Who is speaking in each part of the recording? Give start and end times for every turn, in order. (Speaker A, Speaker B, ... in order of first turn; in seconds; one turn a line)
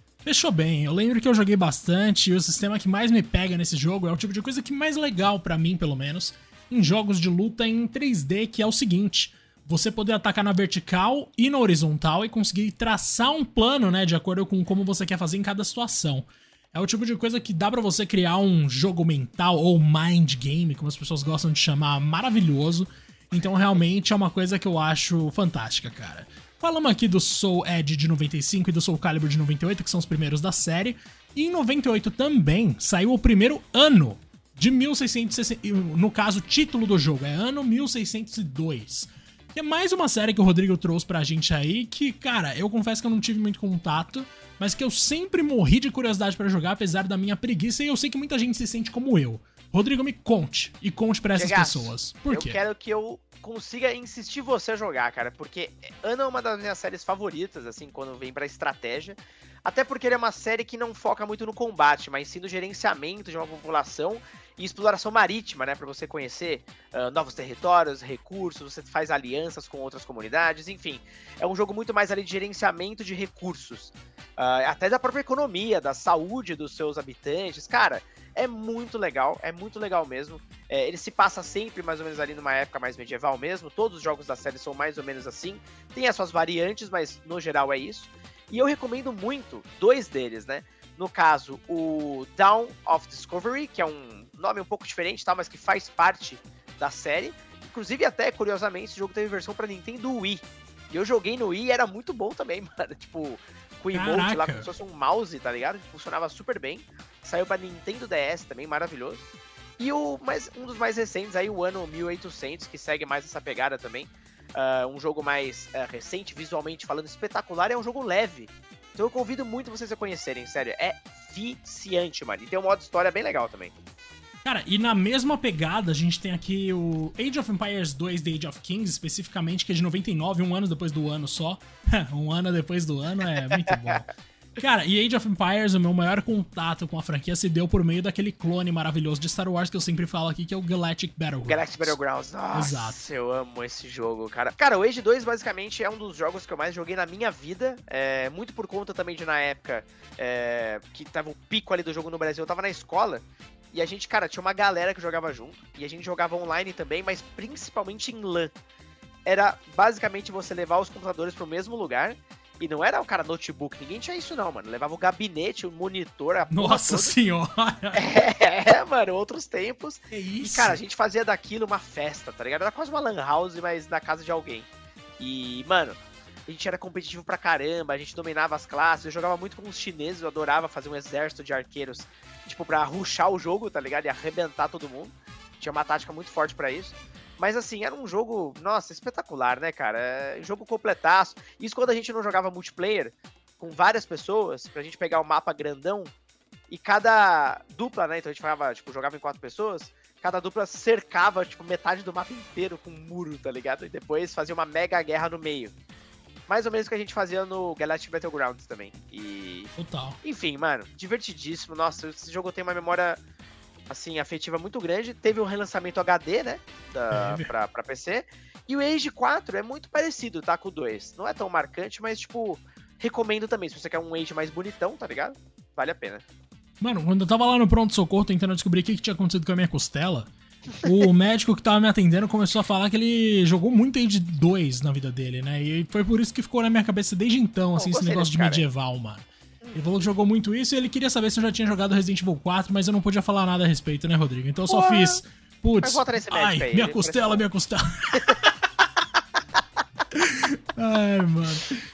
Speaker A: 0.2-52.6
Speaker B: 51.3-109.2
Speaker A: 103.9-104.7
Speaker B: 109.8-123.7
Speaker A: 124.4-142.0
Speaker B: 133.5-133.9
Speaker B: 141.4-158.5
Speaker A: 142.5-143.0
Speaker B: 159.2-167.1
Speaker A: 166.5-168.0
Speaker B: 167.9-174.7
Speaker A: 170.1-170.8
Speaker B: 175.2-196.1
Speaker B: 196.7-205.7
Speaker B: 206.5-209.7
Speaker A: 209.8-210.2
Speaker B: 210.2-213.2
Speaker B: 213.9-226.2
Speaker A: 217.1-217.5
Speaker A: 226.8-248.5
Speaker B: 237.8-238.6
Speaker B: 244.7-245.2
Speaker B: 245.8-247.4
Speaker A: 250.1-251.8